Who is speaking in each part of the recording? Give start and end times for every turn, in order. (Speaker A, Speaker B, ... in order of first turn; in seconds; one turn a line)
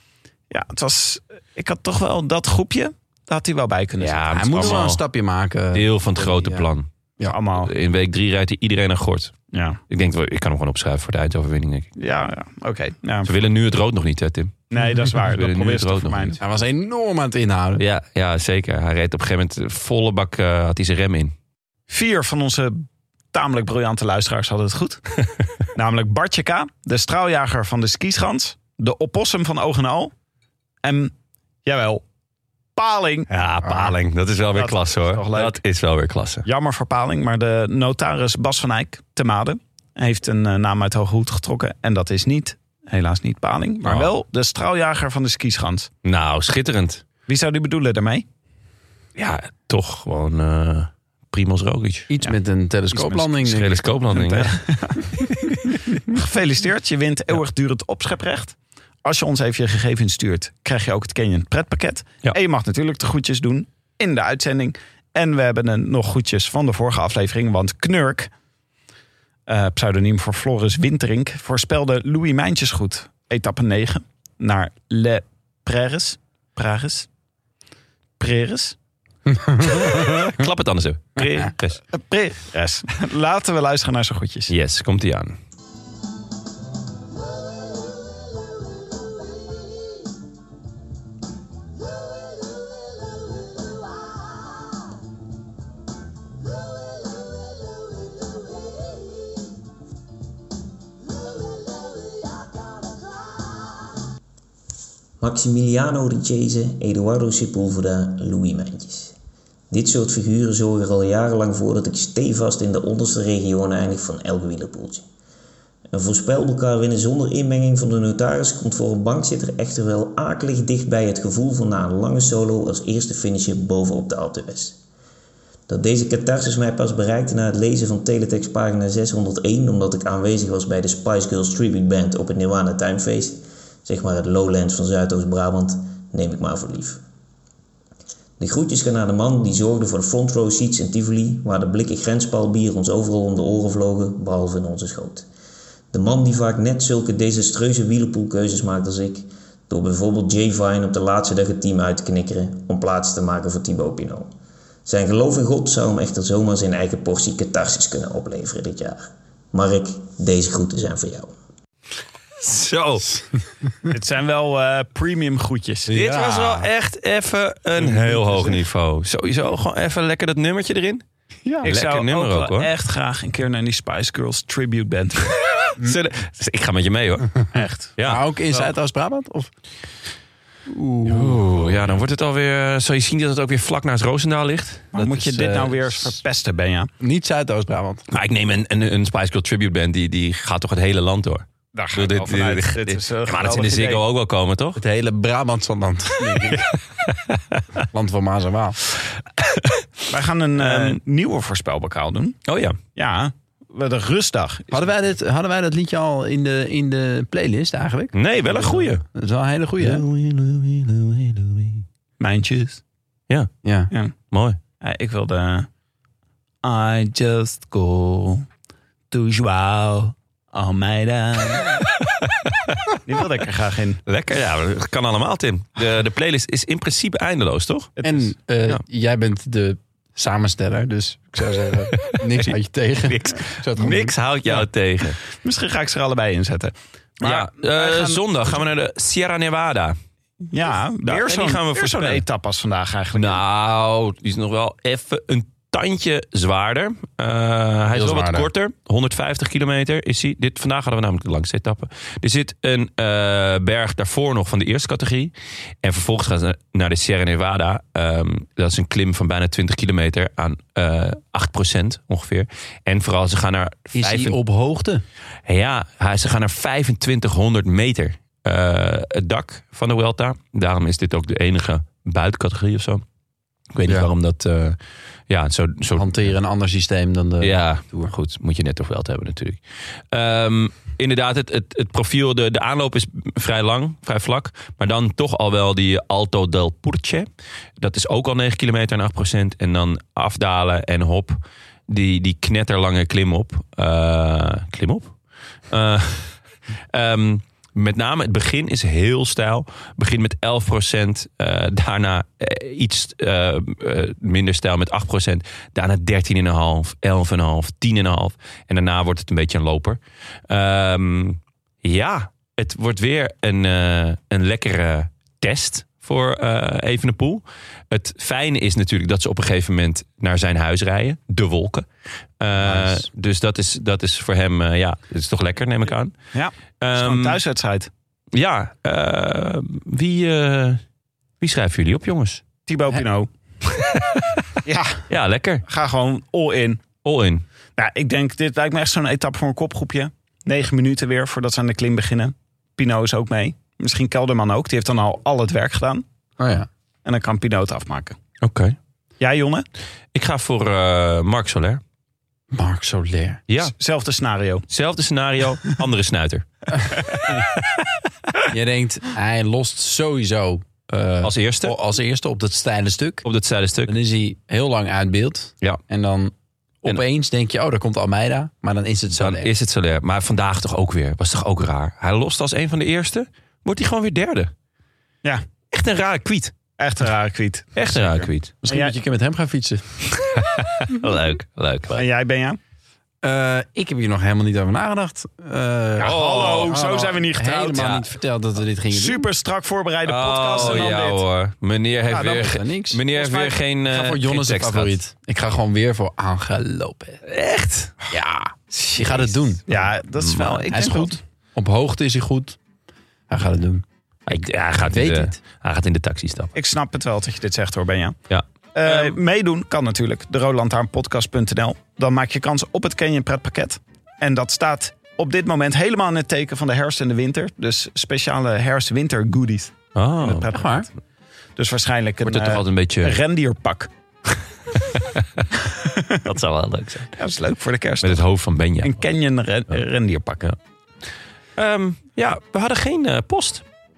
Speaker A: 0.5-4.9
Speaker B: 4.0-5.0
Speaker C: 4.3-6.7
Speaker B: 5.7-6.9
Speaker A: 7.3-7.7
Speaker B: 7.5-9.3
Speaker A: 9.5-9.8
Speaker B: 9.9-11.9
Speaker A: 12.0-13.3
Speaker B: 13.2-16.4
Speaker A: 14.7-16.4
Speaker C: 16.4-17.8
Speaker B: 17.8-21.3
Speaker A: 21.9-30.1
Speaker A: 30.8-31.1
Speaker A: 31.6-32.0
Speaker A: 32.8-33.3
Speaker B: 33.3-36.5
Speaker A: 34.5-35.6
Speaker A: 36.5-45.9
Speaker B: 43.9-44.1
Speaker B: 46.0-47.0
Speaker A: 47.3-48.3
Speaker B: 49.2-52.1
Speaker C: 52.1-53.8
Speaker B: 52.9-54.5
Speaker A: 54.1-68.3
Speaker A: 69.5-77.1
Speaker A: 78.2-78.8
Speaker C: 79.4-80.2
Speaker B: 79.6-81.8
Speaker A: 81.9-84.5
Speaker B: 84.5-85.4
Speaker D: 105.2-109.1
Speaker D: 109.7-115.0
Speaker D: 115.9-124.8
Speaker D: 125.7-137.0
Speaker D: 138.4-145.3
Speaker D: 145.9-154.3
Speaker D: 154.8-161.3
Speaker B: 162.4-163.2
Speaker A: 163.8-165.9
Speaker C: 165.9-166.7
Speaker B: 165.9-171.0
Speaker A: 168.0-168.5
Speaker C: 171.4-171.7
Speaker B: 171.6-172.7
Speaker A: 171.6-175.4
Speaker B: 175.8-177.4
Speaker A: 177.5-177.9
Speaker B: 178.0-178.2
Speaker C: 178.0-179.5
Speaker C: 180.7-181.8
Speaker B: 181.1-185.0
Speaker A: 184.9-186.9
Speaker C: 185.0-186.2
Speaker C: 187.0-188.0
Speaker B: 188.1-194.8
Speaker A: 191.7-194.0
Speaker C: 194.8-196.7
Speaker B: 196.5-197.6
Speaker C: 197.8-198.8
Speaker B: 199.4-199.8
Speaker A: 200.1-202.4
Speaker B: 200.6-201.0
Speaker B: 202.5-202.8
Speaker A: 203.0-204.8
Speaker C: 204.7-210.0
Speaker B: 208.1-209.0
Speaker B: 209.8-211.8
Speaker A: 212.2-212.8
Speaker C: 213.6-213.9
Speaker B: 214.3-214.6
Speaker A: 214.8-215.7
Speaker A: 216.6-218.5
Speaker A: 219.1-221.9
Speaker B: 222.1-222.8
Speaker A: 223.1-224.0
Speaker B: 224.1-227.9
Speaker A: 228.0-228.3
Speaker C: 228.0-234.2
Speaker B: 231.9-235.2
Speaker A: 235.3-238.5
Speaker B: 237.2-240.0
Speaker A: 240.5-243.4
Speaker B: 241.0-242.2
Speaker B: 243.1-264.4
Speaker C: 247.9-248.5
Speaker C: 263.9-265.0
Speaker B: 265.5-273.0
Speaker B: 273.7-274.8
Speaker B: 275.3-276.3
Speaker C: 276.0-278.0
Speaker B: 277.4-279.6
Speaker B: 280.1-287.3
Speaker B: 287.8-291.4
Speaker B: 291.9-295.2
Speaker B: 295.7-296.4
Speaker B: 296.9-321.9
Speaker B: 322.4-326.1
Speaker C: 322.6-323.1
Speaker A: 326.3-327.9
Speaker B: 326.8-327.4
Speaker B: 328.3-330.8
Speaker B: 331.4-332.4
Speaker A: 332.7-333.3
Speaker B: 333.6-334.6
Speaker A: 334.6-335.1
Speaker B: 335.1-335.6
Speaker A: 335.7-336.8
Speaker B: 337.0-337.4
Speaker A: 337.8-346.0
Speaker C: 346.4-346.7
Speaker A: 347.1-348.2
Speaker B: 348.4-348.8
Speaker A: 349.2-349.6
Speaker B: 350.1-351.8
Speaker C: 352.5-353.4
Speaker A: 353.6-354.7
Speaker B: 354.7-357.4
Speaker C: 358.5-363.2
Speaker B: 361.2-361.8
Speaker B: 363.2-363.9
Speaker C: 363.9-369.5
Speaker B: 369.1-374.5
Speaker B: 375.7-376.5
Speaker A: 376.8-378.9
Speaker B: 377.8-378.5
Speaker C: 378.6-380.1
Speaker B: 380.2-382.0
Speaker A: 381.9-382.6
Speaker C: 383.2-389.3
Speaker A: 386.0-387.9
Speaker B: 386.0-386.8
Speaker B: 387.8-388.1
Speaker A: 388.9-391.2
Speaker B: 390.1-395.0
Speaker C: 390.6-390.9
Speaker C: 392.1-397.2
Speaker A: 392.1-392.4
Speaker A: 393.2-393.5
Speaker B: 397.2-398.0
Speaker C: 398.1-399.6
Speaker A: 399.7-401.2
Speaker B: 400.1-400.7
Speaker C: 400.7-402.6
Speaker C: 403.3-403.9
Speaker B: 404.3-406.6
Speaker C: 404.9-405.4
Speaker A: 406.6-408.2
Speaker B: 408.3-409.2
Speaker A: 408.8-420.9
Speaker B: 419.9-420.5
Speaker C: 420.5-420.9
Speaker A: 421.6-423.9
Speaker B: 422.2-423.2
Speaker B: 424.9-425.2
Speaker A: 425.5-426.2
Speaker B: 426.2-427.1
Speaker A: 427.2-428.2
Speaker B: 428.0-429.0
Speaker A: 428.8-430.5
Speaker B: 431.6-433.6